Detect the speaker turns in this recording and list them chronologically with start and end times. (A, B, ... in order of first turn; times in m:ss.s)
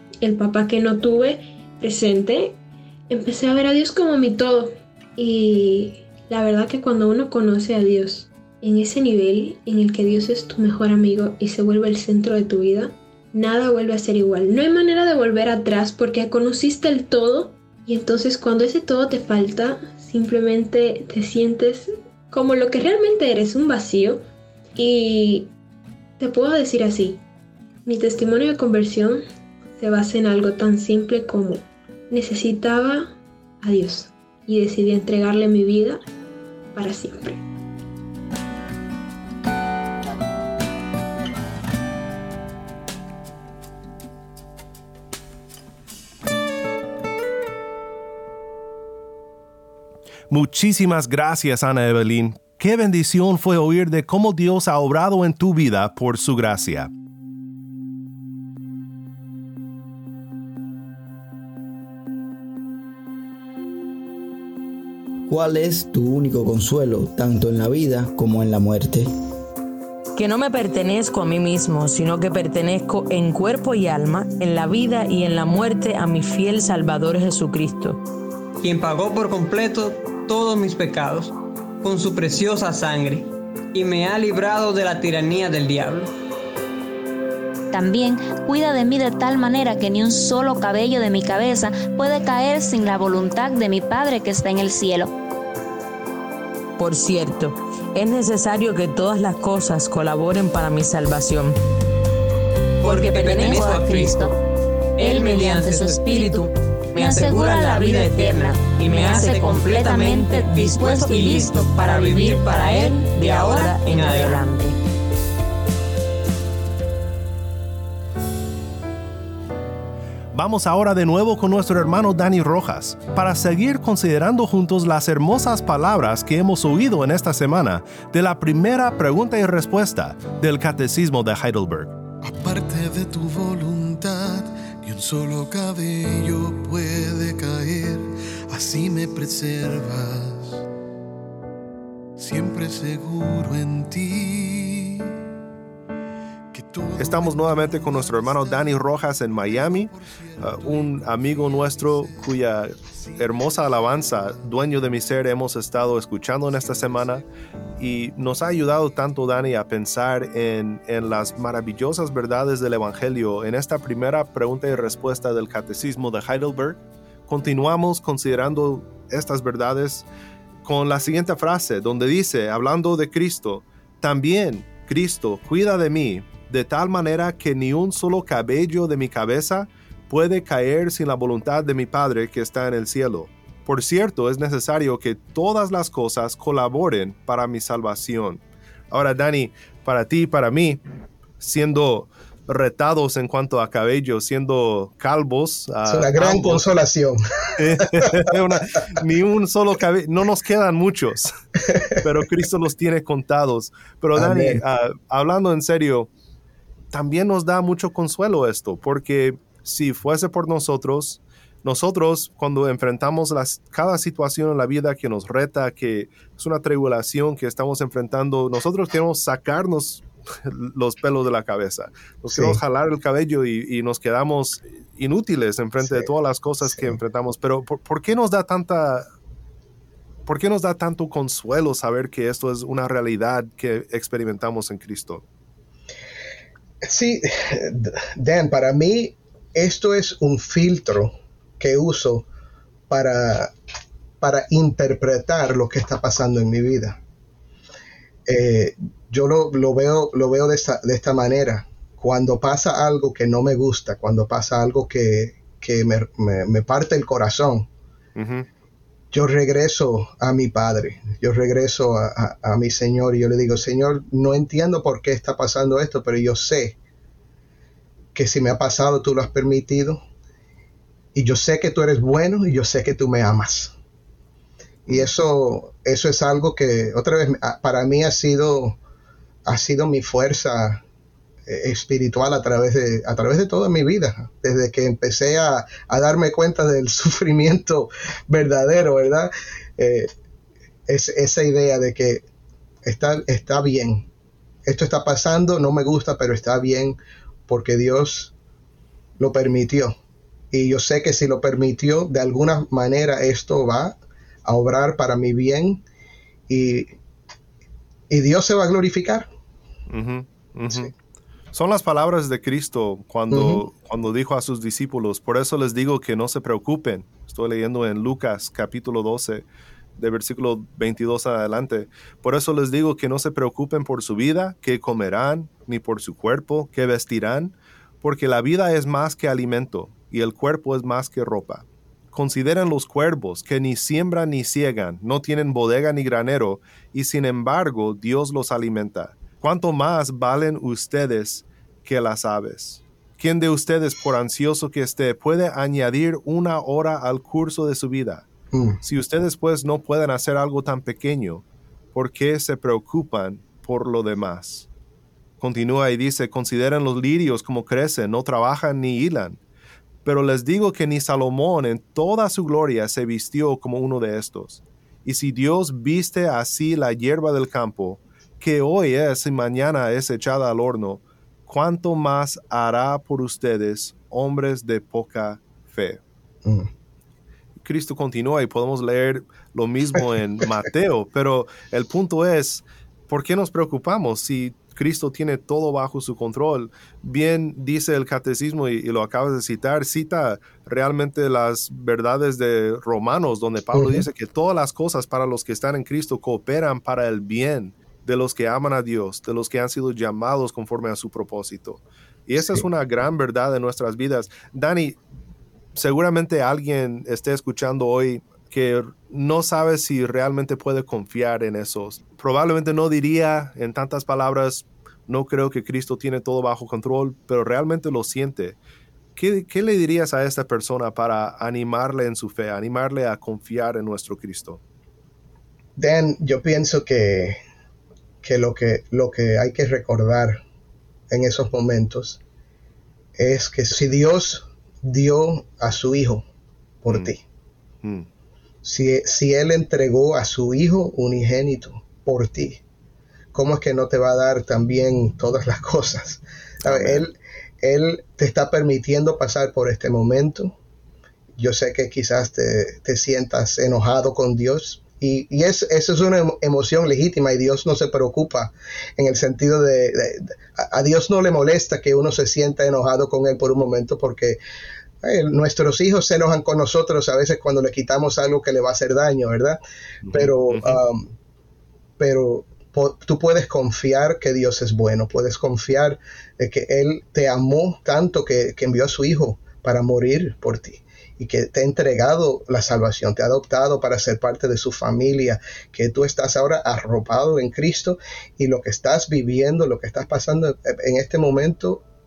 0:00.2-0:02.6 A
0:03.1-0:24.2 A
0:24.8-0:25.5 A
0:26.2-0:27.2 A
0:27.9-0:29.2 A
0:29.8-0:36.0 A
0:36.7-0:37.4 A
0:50.3-0:56.9 B
1:05.3-1:09.1 C
1:10.2-1:18.0 D
1:18.6-1:26.1 E
1:27.7-1:35.1 F
1:36.8-1:41.6 D
1:42.8-1:43.8 D
1:42.8-1:44.3 E
1:43.2-1:44.3 F
1:45.0-1:46.4 E
1:45.0-1:52.3 F
1:45.1-1:46.1 D
1:47.0-1:54.7 D
1:50.9-1:52.3 E
1:53.4-1:53.8 F
1:53.8-1:54.4 E
2:00.3-2:12.0 B
2:12.2-2:20.6 G
2:22.2-2:25.1 G
2:26.5-2:34.2 G
2:27.0-2:37.2 B
2:36.6-2:37.2 G
2:37.8-2:50.1 B
2:50.6-3:10.8 B
3:11.4-3:16.7 B
3:15.8-3:18.2 H
3:17.6-3:21.3 B
3:22.0-3:26.1 B
3:24.2-3:24.6 H
3:26.9-3:49.1 B
3:42.3-3:42.6 H
3:45.8-3:46.1 H
3:46.6-3:47.0 H
3:50.3-3:55.2 B
3:56.8-4:02.3 H
4:02.9-4:03.5 H
4:04.2-4:07.0 H
4:08.3-4:17.7 H
4:18.2-4:18.5 B
4:19.1-4:26.8 H
4:28.1-4:30.0 H
4:31.2-4:33.7 H
4:34.9-4:38.8 H
4:39.5-4:40.8 H
4:41.5-4:50.1 H
4:50.9-4:52.2 H
4:52.8-4:54.1 H
4:54.7-4:58.3 H
4:59.2-5:00.0 H
5:00.5-5:05.8 H
5:06.5-5:07.0 H
5:08.1-5:09.3 H
5:09.9-5:10.9 B
5:11.5-5:19.4 B
5:13.3-5:13.6 H
5:20.0-5:48.3 B
5:48.5-5:48.8 H
5:48.8-5:54.7 B
5:55.4-5:59.4 B
6:00.0-6:16.0 B
6:17.6-6:45.0 B
6:33.7-6:34.0 H
6:42.4-6:42.6 H
6:45.8-6:58.6 B
6:59.2-7:04.6 B
7:05.8-7:07.4 H
7:08.2-7:10.4 H
7:11.1-7:12.2 H
7:13.2-7:16.3 H
7:16.8-7:17.2 H
7:17.8-7:18.1 B
7:18.6-7:22.6 H
7:23.3-7:30.6 H
7:26.6-7:27.0 B
7:31.4-7:44.4 H
7:45.0-7:49.6 H
7:50.0-7:50.8 B
7:50.1-7:51.1 H
7:52.0-8:11.8 H